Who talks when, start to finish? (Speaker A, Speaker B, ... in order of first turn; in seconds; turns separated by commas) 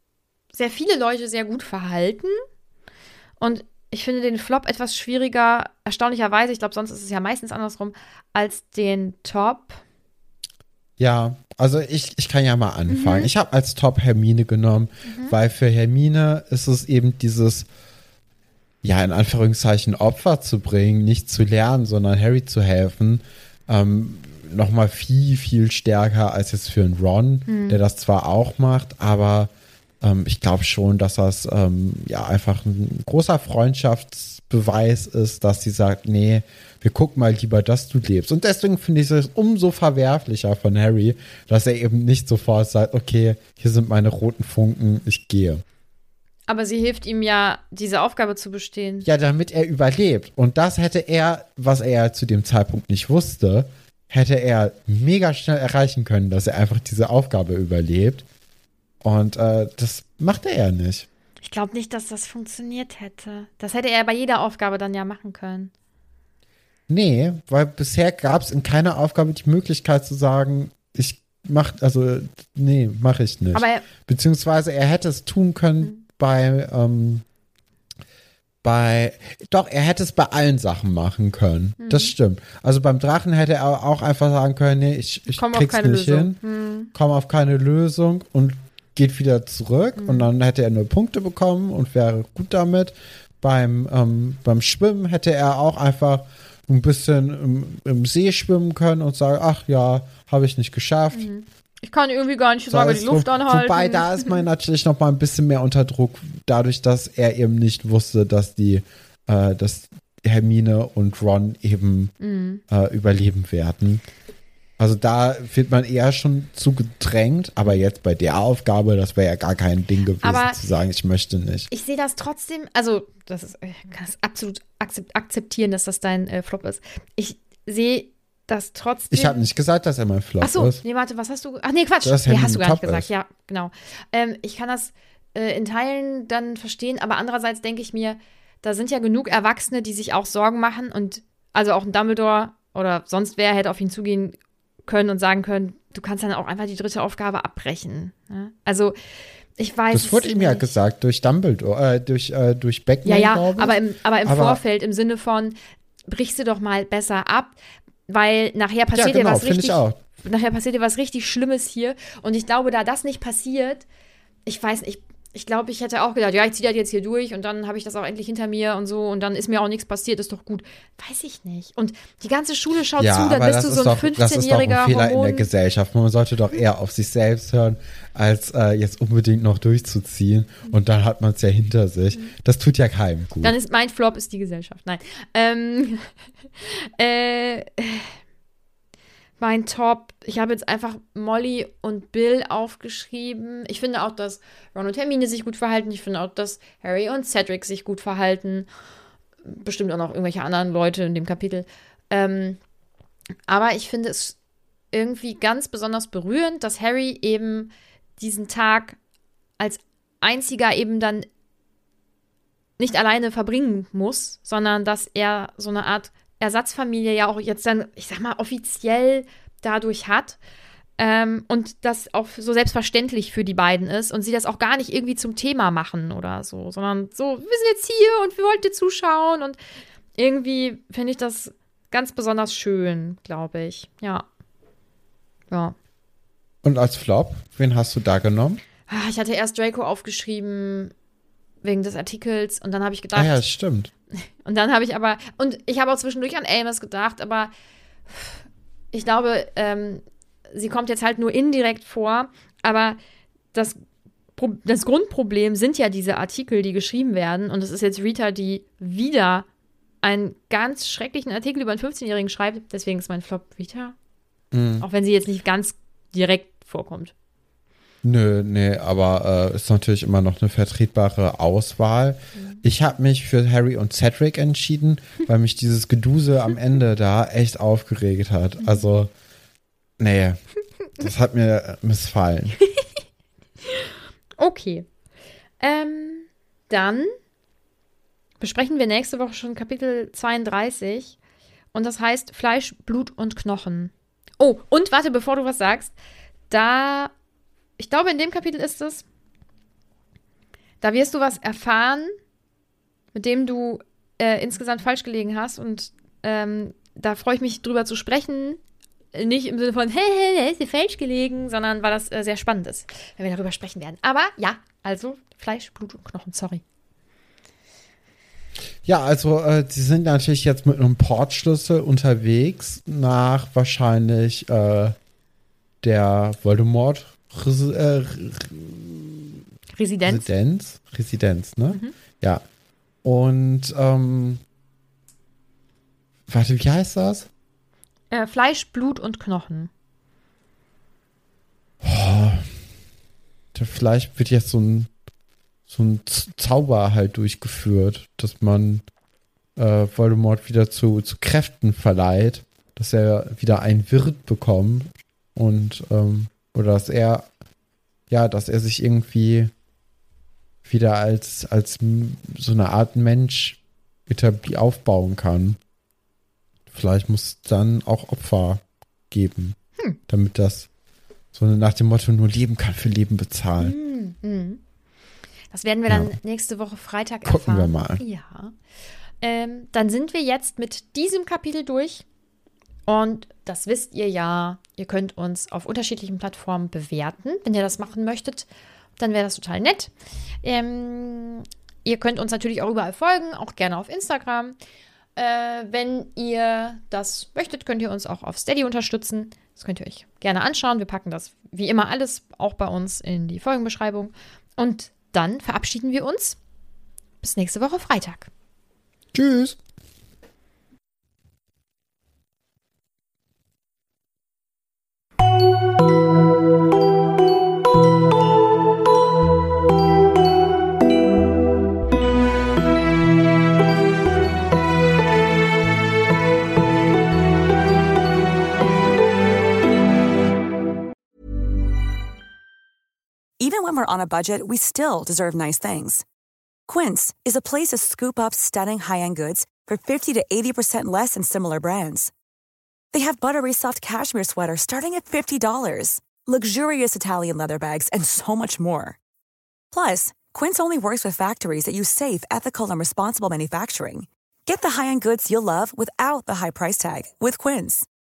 Speaker A: 0.5-2.3, Speaker A: 3.4-9.8, Speaker B: 11.0-17.7, Speaker A: 12.9-13.3, Speaker A: 15.0-15.3, Speaker B: 18.8-29.5, Speaker A: 27.5-27.8, Speaker B: 30.0-45.6, Speaker A: 46.5-49.1, Speaker B: 49.0-58.2, Speaker B: 59.0-61.1, Speaker A: 61.4-65.7, Speaker B: 66.9-77.2, Speaker A: 73.5-73.9, Speaker B: 78.6-86.4, Speaker A: 81.8-82.1, Speaker A: 85.3-86.9, Speaker B: 86.9-101.3, Speaker A: 90.0-90.3, Speaker A: 101.1-104.4, Speaker B: 102.7-112.1, Speaker A: 112.2-112.6, Speaker B: 112.7-114.0, Speaker B: 114.8-121.7, Speaker A: 120.2-120.6, Speaker A: 121.7-129.4, Speaker B: 129.1-130.8, Speaker A: 130.4-144.3, Speaker B: 132.0-133.1, Speaker A: 144.9-148.9, Speaker A: 149.6-150.7, Speaker B: 149.9-154.6, Speaker A: 153.0-155.6, Speaker A: 156.1-163.8, Speaker B: 158.9-160.0, Speaker A: 164.4-175.5, Speaker B: 172.9-183.5, Speaker A: 183.4-186.1, Speaker A: 186.6-188.1, Speaker A: 189.4-198.7, Speaker A: 199.4-202.6, Speaker A: 203.5-204.3, Speaker A: 204.9-209.0, Speaker A: 209.6-211.2, Speaker A: 212.8-220.4, Speaker A: 221.0-229.6, Speaker A: 230.2-234.2, Speaker B: 236.6-238.6, Speaker A: 238.9-240.9, Speaker A: 241.6-243.4, Speaker B: 243.1-243.9, Speaker A: 244.4-247.5, Speaker A: 248.1-253.0, Speaker A: 253.5-253.8, Speaker A: 254.4-259.4, Speaker A: 260.0-263.9, Speaker B: 264.5-264.8, Speaker A: 264.8-267.1, Speaker B: 268.0-279.1, Speaker A: 272.4-272.6, Speaker B: 280.0-280.4, Speaker B: 281.0-282.6, Speaker A: 283.7-284.9, Speaker A: 285.6-287.1, Speaker A: 288.4-291.1, Speaker A: 291.7-295.9, Speaker A: 296.5-297.1, Speaker A: 297.8-299.0, Speaker A: 300.8-302.1, Speaker A: 303.1-308.6, Speaker A: 309.1-316.6, Speaker B: 318.8-324.9, Speaker B: 325.8-329.4, Speaker A: 329.7-330.3, Speaker B: 330.0-332.4, Speaker B: 333.0-334.4, Speaker B: 336.3-337.3, Speaker A: 338.1-339.7, Speaker B: 341.8-342.5, Speaker B: 343.5-344.9, Speaker B: 345.7-348.8, Speaker B: 349.6-357.3, Speaker B: 358.1-359.5, Speaker B: 360.6-365.6, Speaker B: 366.7-369.6, Speaker B: 370.1-370.7, Speaker B: 371.3-373.8, Speaker A: 373.6-374.6, Speaker A: 375.5-378.5, Speaker B: 375.9-376.2, Speaker B: 377.2-378.0, Speaker A: 379.2-382.0, Speaker A: 382.9-388.5, Speaker A: 389.0-389.9, Speaker A: 390.4-394.5, Speaker A: 395.1-406.4, Speaker A: 407.2-408.3, Speaker B: 409.1-409.6, Speaker C: 433.4-436.0, Speaker C: 436.7-442.1, Speaker C: 442.9-449.0, Speaker C: 449.7-457.9